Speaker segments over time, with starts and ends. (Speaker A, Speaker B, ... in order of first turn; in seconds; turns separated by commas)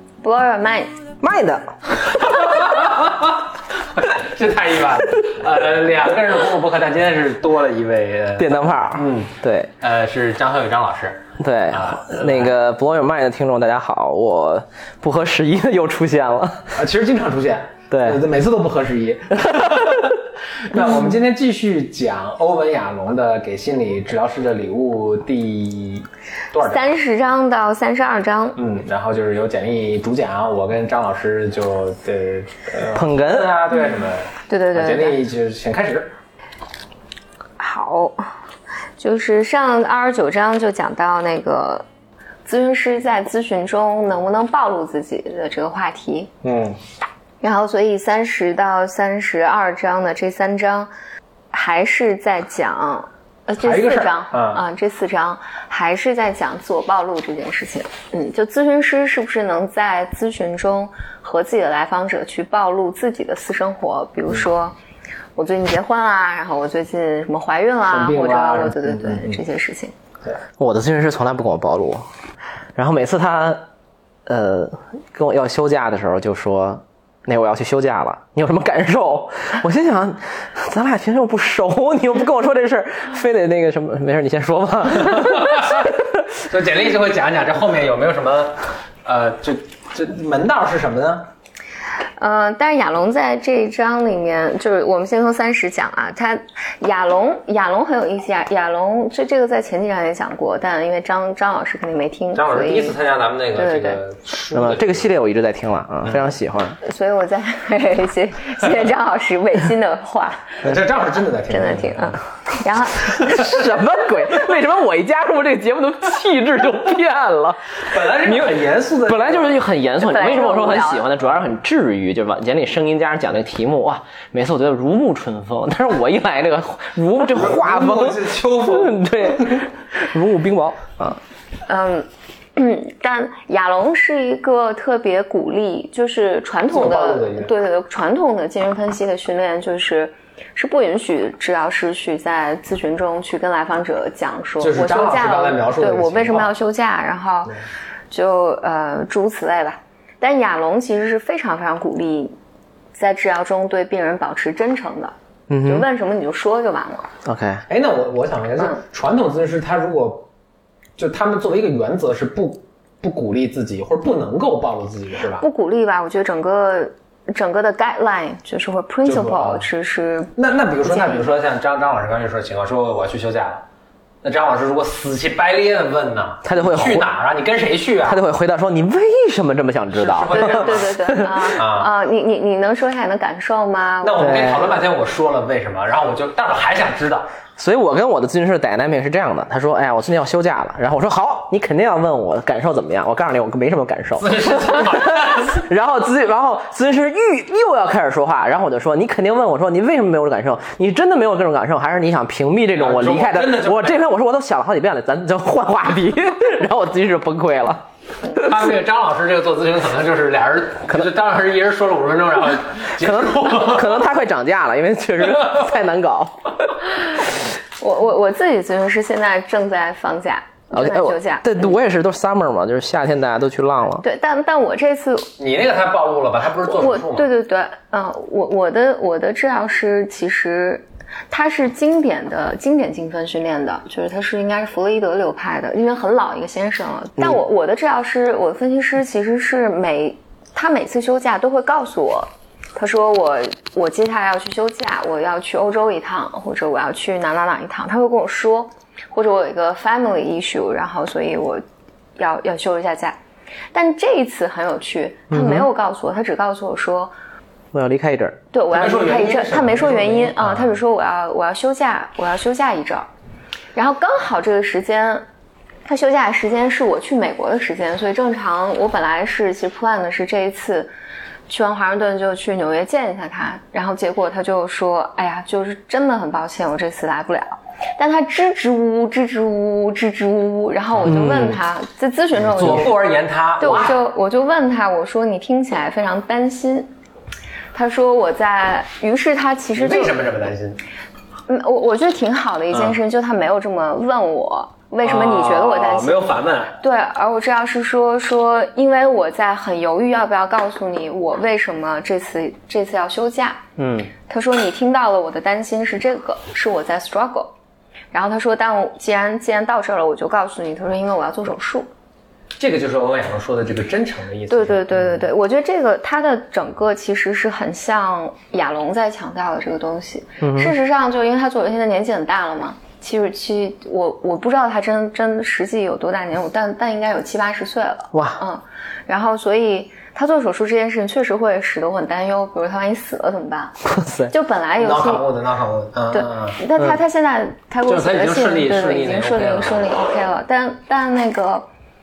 Speaker A: 0.2-1.0, Speaker B: 1.2-1.7, Speaker C: 2.0-12.5, Speaker B: 8.3-9.7, Speaker B: 11.4-16.8, Speaker C: 16.7-26.9, Speaker B: 17.9-18.2, Speaker B: 19.3-20.1, Speaker A: 26.6-28.6, Speaker C: 28.6-36.1, Speaker B: 32.9-33.5, Speaker A: 34.5-35.2, Speaker A: 37.6-38.3, Speaker A: 39.0-41.9, Speaker A: 42.5-46.3, Speaker C: 46.4-46.8, Speaker A: 47.4-50.9, Speaker A: 51.5-64.8, Speaker C: 53.6-54.6, Speaker A: 65.3-69.9, Speaker C: 67.9-69.4, Speaker B: 70.6-72.1, Speaker B: 72.8-73.6, Speaker B: 74.2-86.2, Speaker C: 85.1-91.3, Speaker A: 92.2-103.0, Speaker C: 102.3-105.1, Speaker A: 103.5-104.0, Speaker B: 104.5-106.8, Speaker A: 106.8-110.6, Speaker C: 110.6-112.2, Speaker A: 111.5-113.6, Speaker B: 113.2-131.2, Speaker C: 113.2-113.5, Speaker C: 117.8-119.6, Speaker A: 120.0-121.1, Speaker C: 127.3-129.7, Speaker A: 131.7-147.5, Speaker C: 136.7-137.5, Speaker C: 144.6-146.5, Speaker A: 148.1-152.3, Speaker A: 152.9-157.1, Speaker B: 155.5-155.9, Speaker B: 157.2-157.7, Speaker C: 157.7-160.3, Speaker C: 161.0-165.4, Speaker A: 165.4-171.2, Speaker C: 169.1-169.7, Speaker C: 170.4-173.6, Speaker C: 174.2-178.2, Speaker B: 176.4-177.1, Speaker B: 178.0-181.5, Speaker C: 179.9-181.9, Speaker A: 180.3-184.7, Speaker C: 184.0-187.3, Speaker B: 184.2-184.7, Speaker B: 187.6-208.5, Speaker C: 194.2-195.7, Speaker C: 202.7-204.0, Speaker C: 208.3-214.0, Speaker B: 213.0-216.9, Speaker A: 217.8-221.7, Speaker B: 220.7-224.0, Speaker A: 224.0-225.3, Speaker C: 225.4-227.3, Speaker A: 226.7-251.6, Speaker A: 252.2-253.2, Speaker A: 253.7-257.1, Speaker B: 255.3-255.7, Speaker B: 257.7-258.4, Speaker A: 258.5-263.1, Speaker C: 258.7-260.8, Speaker A: 263.7-265.2, Speaker A: 265.9-270.9, Speaker A: 271.5-283.0, Speaker B: 281.0-281.6, Speaker C: 282.4-284.0, Speaker A: 283.6-286.9, Speaker A: 287.7-290.2, Speaker C: 289.8-290.8, Speaker A: 291.5-303.6, Speaker C: 292.7-293.0, Speaker C: 295.0-296.8, Speaker B: 303.8-304.1, Speaker A: 304.3-307.5, Speaker A: 308.1-311.9, Speaker C: 312.6-315.3, Speaker A: 314.5-335.2, Speaker B: 320.4-320.7, Speaker B: 328.1-328.4, Speaker B: 333.9-334.3, Speaker C: 334.8-336.6, Speaker A: 336.1-341.7, Speaker C: 337.9-339.9